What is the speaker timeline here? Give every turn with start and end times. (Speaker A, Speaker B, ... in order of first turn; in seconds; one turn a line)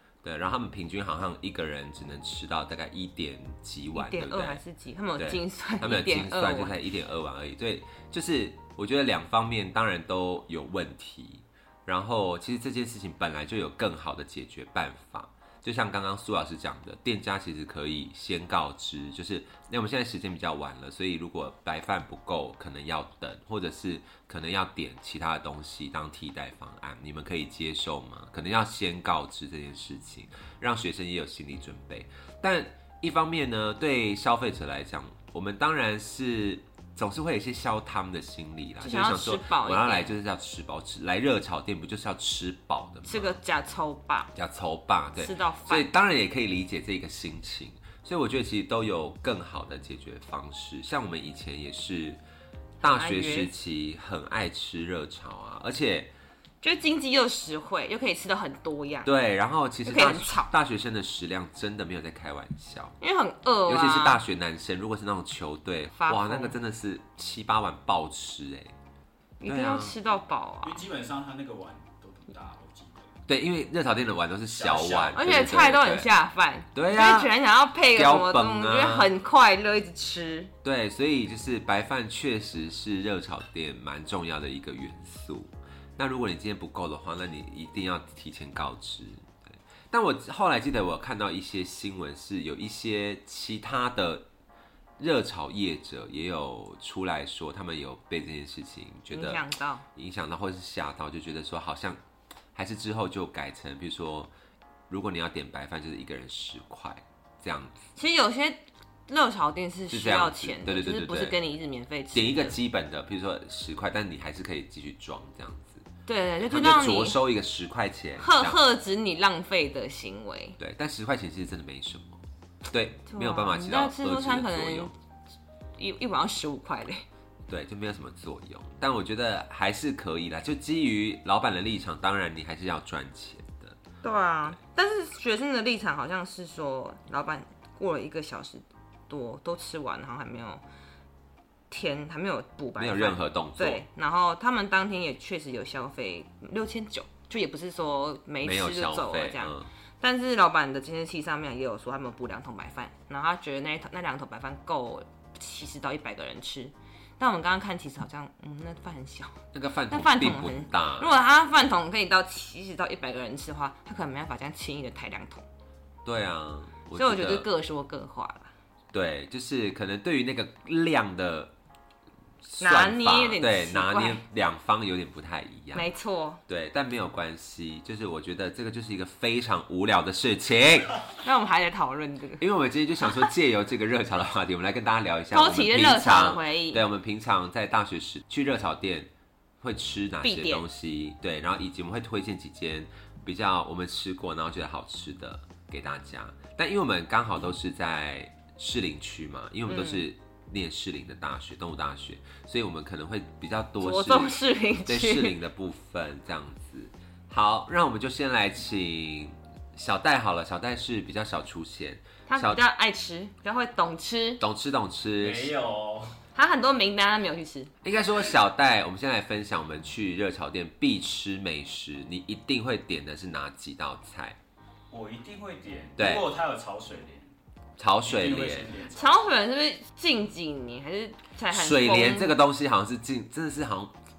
Speaker A: 0.2-4.6
Speaker B: 3.9-6.8
Speaker A: 5.2-43.4
Speaker B: 38.8-40.1
Speaker B: 43.1-44.3
Speaker A: 44.4-52.2
Speaker B: 45.2-45.9
Speaker B: 52.8-53.5
Speaker A: 52.8-56.1
Speaker B: 56.6-59.1
Speaker A: 59.0-63.0
Speaker B: 59.9-60.5
Speaker B: 63.0-64.2
Speaker A: 63.7-68.7
Speaker B: 65.9-66.5
Speaker B: 69.4-70.8
Speaker A: 69.5-70.0
Speaker C: 70.6-73.1
Speaker A: 73.3-76.1
Speaker C: 74.5-75.2
Speaker B: 75.1-80.5
Speaker A: 76.7-77.3
Speaker A: 77.9-79.1
Speaker A: 80.6-94.3
Speaker A: 95.0-99.4
Speaker B: 99.1-99.9
Speaker A: 100.0-102.0
Speaker A: 102.5-104.3
Speaker A: 104.9-107.8
Speaker B: 108.0-112.6
Speaker A: 109.9-111.4
Speaker A: 112.1-115.9
Speaker B: 116.1-117.2
Speaker A: 116.5-118.6
Speaker B: 118.2-120.6
Speaker A: 120.6-124.9
Speaker B: 123.1-124.9
Speaker B: 125.8-127.0
Speaker A: 127.5-133.8
Speaker B: 134.0-140.6
Speaker B: 141.7-165.4
Speaker A: 142.8-143.8
Speaker A: 148.4-149.7
Speaker A: 159.5-161.1
Speaker A: 166.1-167.5
Speaker B: 166.9-168.5
Speaker A: 168.9-171.5
Speaker A: 172.4-175.9
Speaker B: 172.6-174.2
Speaker B: 175.7-176.4
Speaker A: 176.5-181.0
Speaker B: 181.2-182.4
Speaker A: 182.4-189.1
Speaker B: 185.3-186.8
Speaker A: 189.6-212.6
Speaker B: 190.2-190.7
Speaker B: 199.7-200.0
Speaker B: 203.8-205.4
Speaker B: 212.3-214.4
Speaker A: 214.4-215.5
Speaker C: 215.2-216.2
Speaker B: 216.3-217.7
Speaker A: 217.8-224.4
Speaker C: 224.9-227.3
Speaker A: 226.0-226.3
Speaker A: 227.8-228.8
Speaker C: 228.1-229.2
Speaker B: 228.9-232.4
Speaker A: 231.5-233.9